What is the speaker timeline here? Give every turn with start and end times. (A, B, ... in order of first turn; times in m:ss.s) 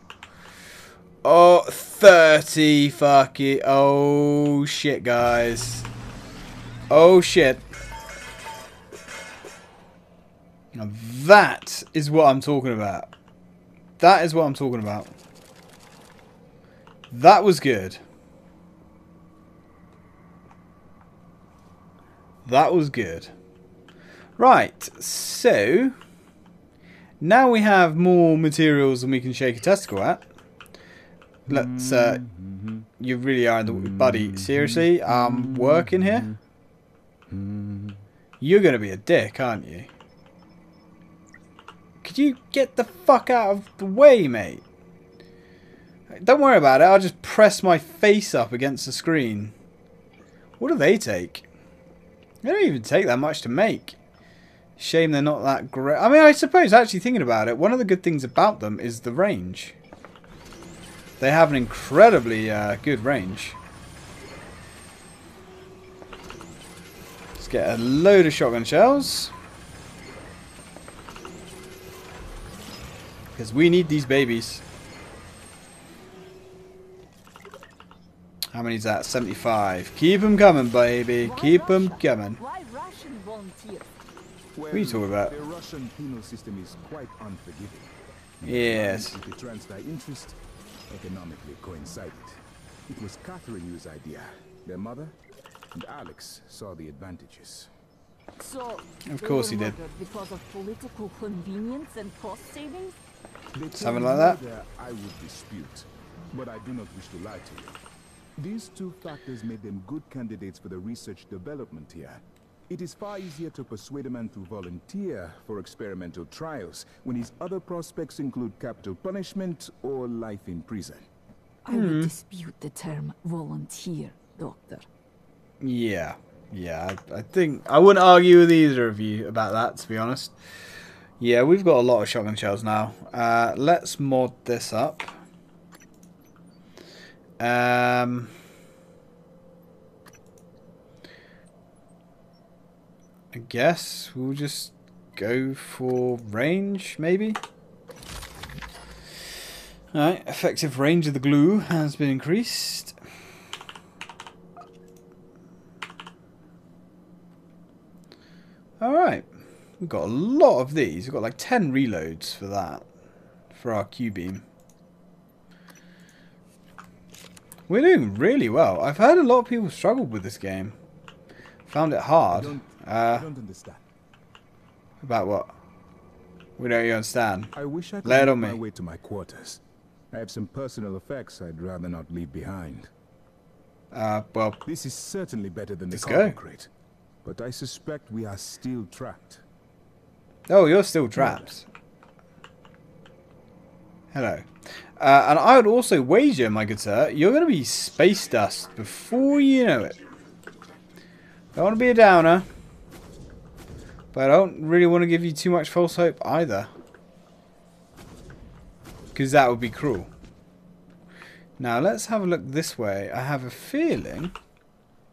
0:01.2-0:05.9 A
0:06.9-0:07.6 A
0:10.7-0:13.1 A
0:14.0-0:15.1 A
0:17.1-0:18.0 A
0:22.4-0:23.3 A
0:24.4-0:26.0 A
0:27.2-0:30.2 A
0:31.5-0:32.2 A
0:31.5-0:32.9 B
0:33.0-0:36.3 A
0:33.7-0:36.4 B
0:37.3-0:38.0 B
0:38.4-0:39.9 A
0:42.0-0:44.6 A
0:46.1-0:49.5 A
0:50.6-0:51.4 A
0:52.4-0:54.0 A
0:54.8-0:59.8 A
1:01.2-1:03.6 A
1:07.4-1:09.3 A
1:13.3-1:14.6 A
1:18.5-1:22.4 A
1:21.2-1:23.9 C
1:24.5-1:30.4 B
1:24.7-1:25.3 A
1:28.4-1:29.2 A
1:30.9-1:35.2 B
1:35.7-1:37.7 B
1:38.4-1:42.9 C
1:39.1-1:39.8 A
1:43.5-1:47.8 B
1:43.7-1:44.4 A
1:48.4-2:01.1 B
2:01.6-2:04.8 C
2:01.7-2:02.1 A
2:05.6-2:10.3 A
2:11.2-2:15.1 A
2:17.4-2:18.3 A
2:23.3-2:27.4 A
2:29.9-2:33.0 A
2:38.8-2:39.3 A
2:39.8-2:42.8 A
2:43.5-2:44.4 A
2:47.7-2:50.8 A
2:51.6-2:53.2 A
2:52.3-2:53.8 B
2:55.0-2:55.5 A
2:56.6-2:58.6 A
2:57.5-2:59.6 B
3:00.1-3:02.9 B
3:03.9-3:04.6 A
3:04.6-3:06.7 B
3:05.9-3:06.4 A
3:07.2-3:09.4 B
3:10.5-3:11.7 A
3:14.1-3:20.0 A
3:21.5-3:22.5 A
3:24.1-3:26.7 A
3:29.1-3:30.1 A
3:31.6-3:34.3 A